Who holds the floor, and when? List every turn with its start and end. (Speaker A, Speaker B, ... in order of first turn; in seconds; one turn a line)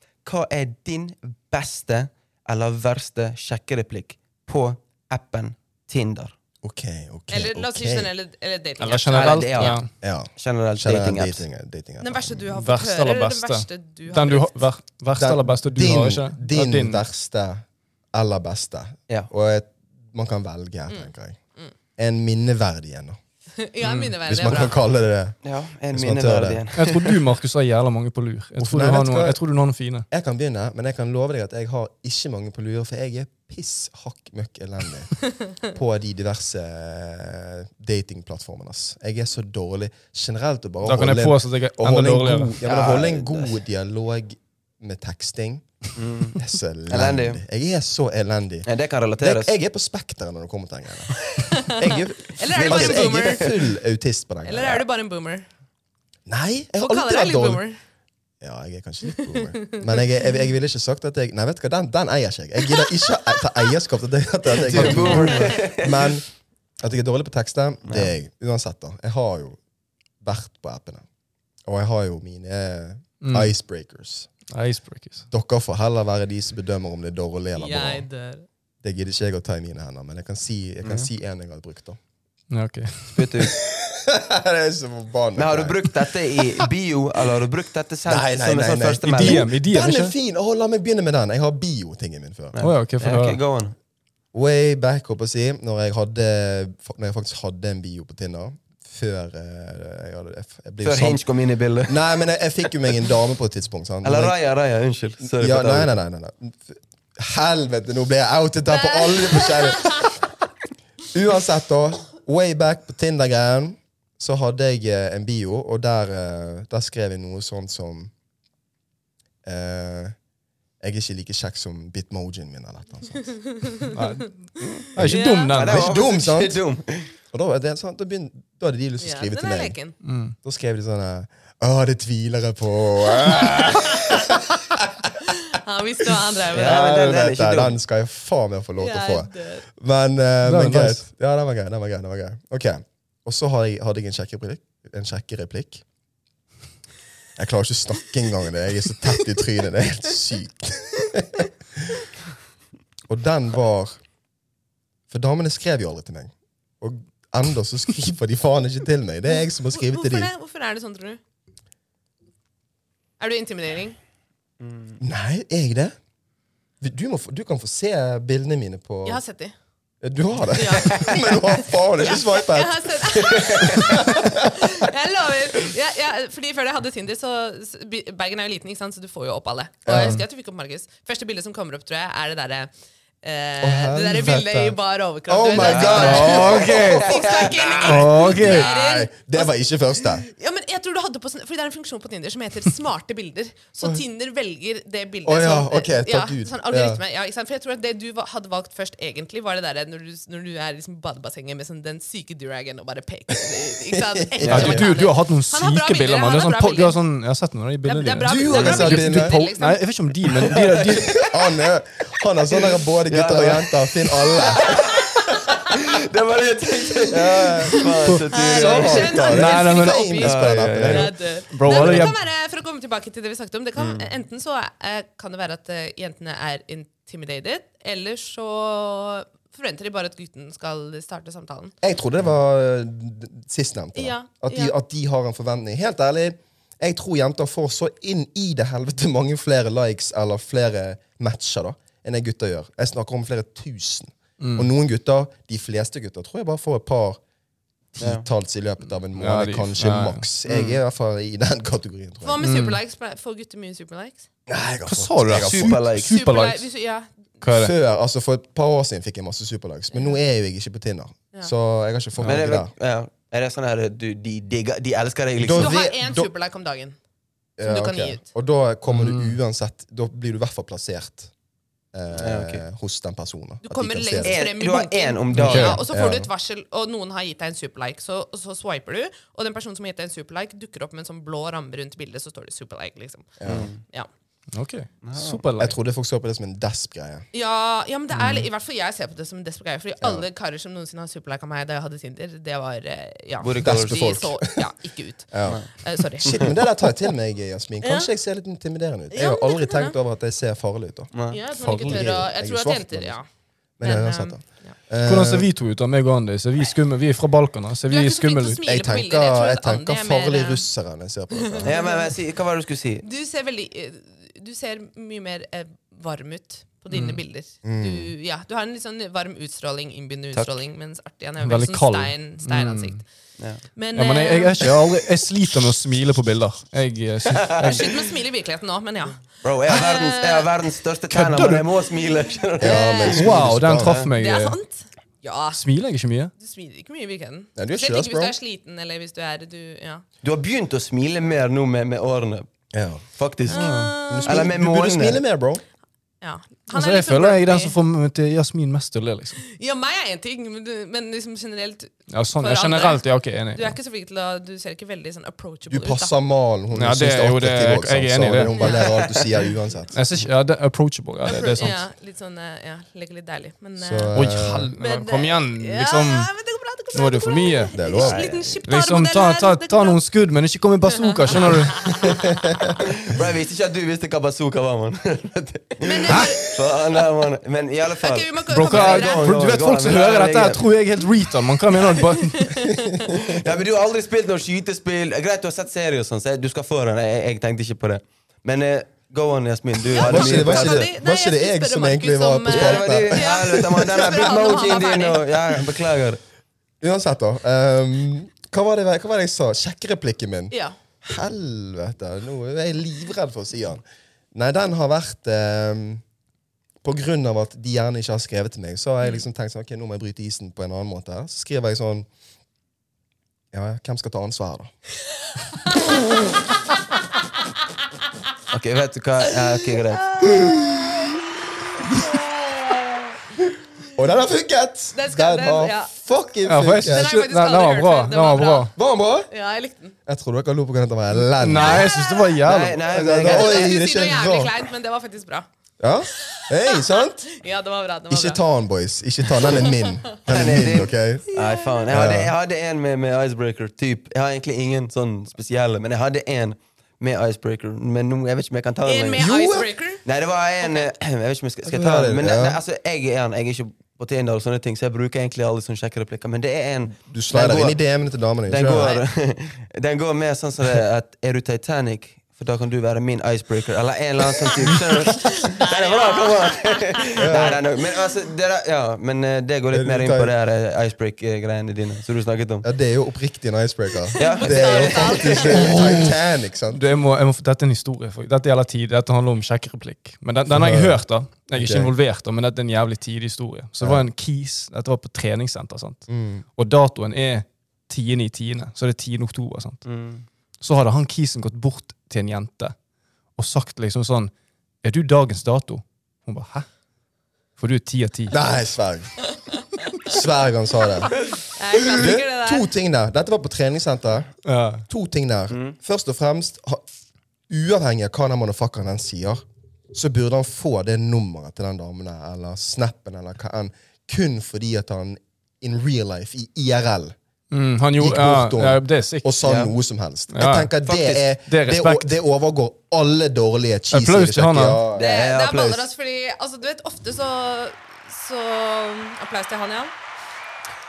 Speaker A: 0.2-6.3
Speaker B: 6.6-8.1
Speaker C: 7.3-9.8
Speaker D: 8.8-9.9
Speaker A: 9.1-9.8
Speaker B: 10.0-12.6
Speaker A: 10.4-11.4
Speaker C: 12.0-14.6
Speaker D: 12.5-17.0
Speaker B: 15.2-21.4
Speaker C: 20.9-21.7
Speaker B: 22.0-23.2
Speaker C: 23.6-24.8
Speaker D: 23.8-24.1
Speaker B: 24.3-25.4
Speaker A: 25.4-27.2
Speaker B: 25.9-26.6
Speaker D: 26.8-30.1
Speaker B: 28.6-29.4
Speaker B: 30.1-45.6
Speaker D: 40.8-42.6
Speaker A: 42.6-43.5
Speaker A: 46.0-46.4
Speaker B: 46.3-48.7
Speaker A: 46.9-47.4
Speaker A: 48.6-49.5
Speaker B: 49.2-54.8
Speaker C: 51.3-53.5
Speaker A: 52.5-53.6
Speaker C: 54.4-55.5
Speaker B: 56.3-57.6
Speaker C: 56.8-57.8
Speaker B: 58.4-66.2
Speaker C: 59.2-59.8
Speaker A: 64.6-66.1
Speaker C: 64.9-65.6
Speaker B: 66.8-69.6
Speaker A: 67.8-68.1
Speaker B: 70.2-71.0
Speaker B: 71.7-74.3
Speaker D: 73.2-73.5
Speaker D: 74.5-75.2
Speaker B: 75.3-78.0
Speaker C: 77.5-78.5
Speaker B: 78.8-82.0
Speaker A: 80.8-81.1
Speaker D: 82.5-83.3
Speaker A: 83.1-83.5
Speaker B: 83.5-86.6
Speaker A: 85.4-89.5
Speaker B: 88.0-92.5
Speaker D: 89.1-90.1
Speaker A: 92.5-93.8
Speaker D: 92.6-93.4
Speaker B: 94.3-101.2
Speaker A: 100.8-102.0
Speaker B: 101.9-104.4
Speaker A: 104.0-105.9
Speaker B: 105.2-110.2
Speaker C: 108.7-110.1
Speaker B: 111.1-118.1
Speaker B: 119.4-120.2
Speaker B: 120.8-123.7
Speaker D: 123.9-125.9
Speaker B: 125.0-126.6
Speaker C: 125.0-125.5
Speaker A: 125.5-127.1
Speaker B: 127.3-129.8
Speaker C: 129.0-129.9
Speaker D: 130.0-130.3
Speaker B: 130.4-135.1
Speaker C: 135.3-136.8
Speaker B: 136.5-145.8
Speaker A: 136.5-137.8
Speaker C: 138.8-139.7
Speaker D: 140.4-141.0
Speaker B: 147.4-152.0
Speaker B: 153.1-153.9
Speaker B: 155.1-160.3
Speaker C: 159.3-161.2
Speaker C: 163.2-164.0
Speaker A: 164.6-165.0
Speaker B: 165.0-165.9
Speaker B: 166.8-169.2
Speaker C: 169.0-169.5
Speaker B: 170.0-174.7
Speaker C: 170.5-182.7
Speaker A: 173.2-173.8
Speaker B: 179.8-180.2
Speaker D: 179.9-180.2
Speaker C: 183.2-207.0
Speaker B: 183.6-187.0
Speaker A: 185.5-188.1
Speaker D: 185.9-187.1
Speaker D: 187.8-188.7
Speaker B: 188.1-190.2
Speaker B: 195.2-197.0
Speaker B: 203.9-204.9
Speaker D: 204.5-211.3
Speaker C: 207.8-209.8
Speaker B: 208.2-209.4
Speaker A: 210.3-211.4
Speaker B: 211.2-215.0
Speaker A: 212.5-219.4
Speaker B: 217.1-221.1
Speaker C: 217.4-220.4
Speaker D: 219.2-222.2
Speaker A: 220.2-221.0
Speaker C: 220.9-231.7
Speaker A: 223.8-224.1
Speaker B: 231.8-247.2
Speaker C: 233.9-234.7
Speaker D: 244.4-244.7
Speaker B: 247.9-252.4
Speaker A: 248.0-248.2
Speaker D: 249.1-250.7
Speaker C: 252.2-254.2
Speaker D: 252.4-252.8
Speaker B: 254.5-255.8
Speaker D: 254.9-256.6
Speaker A: 255.3-256.1
Speaker C: 256.1-257.2
Speaker D: 257.4-257.7
Speaker B: 257.5-262.7
Speaker D: 262.2-262.4
Speaker A: 262.2-265.8
Speaker B: 265.4-266.3
Speaker C: 265.6-267.0
Speaker B: 267.6-271.3
Speaker C: 267.6-268.2
Speaker D: 268.9-269.4
Speaker B: 271.9-274.4
Speaker A: 272.1-272.6
Speaker C: 273.6-283.4
Speaker A: 274.2-275.8
Speaker D: 275.3-275.8
Speaker B: 275.4-276.3
Speaker B: 283.4-283.7
Speaker A: 283.4-283.8
Speaker D: 284.5-285.8
Speaker A: 285.0-285.4
Speaker B: 285.6-287.2
Speaker C: 287.3-296.6
Speaker A: 293.4-294.1
Speaker B: 293.6-294.7
Speaker B: 295.3-301.1
Speaker A: 296.2-296.5
Speaker C: 297.8-298.1
Speaker C: 299.1-299.9
Speaker A: 301.1-301.4
Speaker C: 301.3-303.2
Speaker D: 301.6-302.1
Speaker B: 301.7-303.2
Speaker B: 303.8-305.5
Speaker C: 303.8-304.8
Speaker D: 305.0-308.6
Speaker C: 307.9-310.6
Speaker B: 308.6-311.8
Speaker C: 311.5-312.2
Speaker A: 311.6-313.0
Speaker C: 313.0-323.1
Speaker D: 316.9-317.2
Speaker B: 317.6-318.1
Speaker D: 321.4-323.0
Speaker C: 323.8-324.7
Speaker D: 323.9-328.0
Speaker A: 327.3-327.9
Speaker C: 327.6-330.5
Speaker A: 329.4-334.1
Speaker D: 331.1-331.6
Speaker B: 332.6-334.0
Speaker C: 332.6-333.2
Speaker D: 333.1-334.6
Speaker C: 334.1-335.6
Speaker D: 335.5-336.3
Speaker C: 336.4-340.0
Speaker B: 337.6-338.3
Speaker A: 340.2-342.4
Speaker B: 342.7-343.0
Speaker A: 343.1-345.2
Speaker C: 343.5-344.5
Speaker D: 343.5-343.9
Speaker B: 344.1-345.6
Speaker C: 346.2-347.8
Speaker D: 346.7-349.4
Speaker C: 349.4-356.1
Speaker D: 352.1-353.8
Speaker B: 355.7-360.0
Speaker D: 356.7-358.6
Speaker C: 358.5-359.0
Speaker A: 358.8-359.2
Speaker D: 359.9-361.8
Speaker C: 361.2-370.0
Speaker B: 363.8-364.7
Speaker D: 364.1-366.3
Speaker D: 366.9-367.8
Speaker B: 367.7-368.5
Speaker A: 368.0-368.4
Speaker D: 368.6-372.2
Speaker C: 370.9-372.7
Speaker B: 372.1-372.8
Speaker A: 372.8-380.6
Speaker C: 375.8-376.5
Speaker D: 376.1-376.4
Speaker C: 378.0-379.3
Speaker D: 378.5-382.7
Speaker C: 381.8-383.2
Speaker A: 383.1-390.9
Speaker C: 389.9-395.2
Speaker B: 390.0-394.3
Speaker A: 392.5-396.2
Speaker B: 396.8-403.8
Speaker C: 400.5-400.8
Speaker B: 404.3-406.0
Speaker B: 406.8-412.1
Speaker B: 413.5-414.7
Speaker A: 418.5-420.2
Speaker C: 420.2-420.5
Speaker B: 420.2-420.9
Speaker B: 423.9-427.1
Speaker C: 424.9-425.9
Speaker D: 426.5-428.7
Speaker C: 426.8-428.7
Speaker B: 428.8-429.3
Speaker C: 429.3-429.9
Speaker B: 430.1-431.9
Speaker D: 431.4-432.8
Speaker C: 431.6-432.3
Speaker A: 432.4-433.8
Speaker B: 432.9-434.5
Speaker C: 433.2-435.5
Speaker B: 435.8-437.3
Speaker C: 436.2-438.4
Speaker B: 438.1-441.2
Speaker C: 439.4-439.8
Speaker A: 440.2-449.3
Speaker C: 441.3-441.9
Speaker B: 441.9-442.3
Speaker C: 448.8-450.0
Speaker B: 449.2-449.7
Speaker A: 450.0-457.8
Speaker C: 450.6-450.9
Speaker B: 451.6-452.6
Speaker B: 457.0-459.0
Speaker A: 458.5-472.6
Speaker C: 465.2-467.6
Speaker B: 467.2-467.6
Speaker B: 469.7-470.3
Speaker B: 472.6-476.8
Speaker C: 474.1-476.0
Speaker A: 474.2-475.8
Speaker D: 475.6-476.1
Speaker D: 476.7-489.8
Speaker B: 480.5-481.0
Speaker B: 481.5-481.9
Speaker B: 483.8-484.1
Speaker B: 486.1-486.4
Speaker A: 489.8-490.2
Speaker D: 490.6-492.8
Speaker D: 493.4-494.3
Speaker D: 494.8-496.7
Speaker D: 497.6-498.4
Speaker B: 498.3-499.2
Speaker B: 500.0-501.2
Speaker C: 501.5-502.7
Speaker B: 501.8-504.3
Speaker D: 504.4-504.8
Speaker B: 504.9-506.8
Speaker A: 505.5-505.8
Speaker B: 507.5-509.4
Speaker B: 509.9-517.1
Speaker D: 517.5-519.5
Speaker B: 518.0-525.1
Speaker A: 519.4-519.7
Speaker D: 520.3-520.7
Speaker A: 520.8-521.2
Speaker D: 521.5-522.1
Speaker D: 523.9-524.8
Speaker A: 525.0-525.9
Speaker C: 525.0-529.9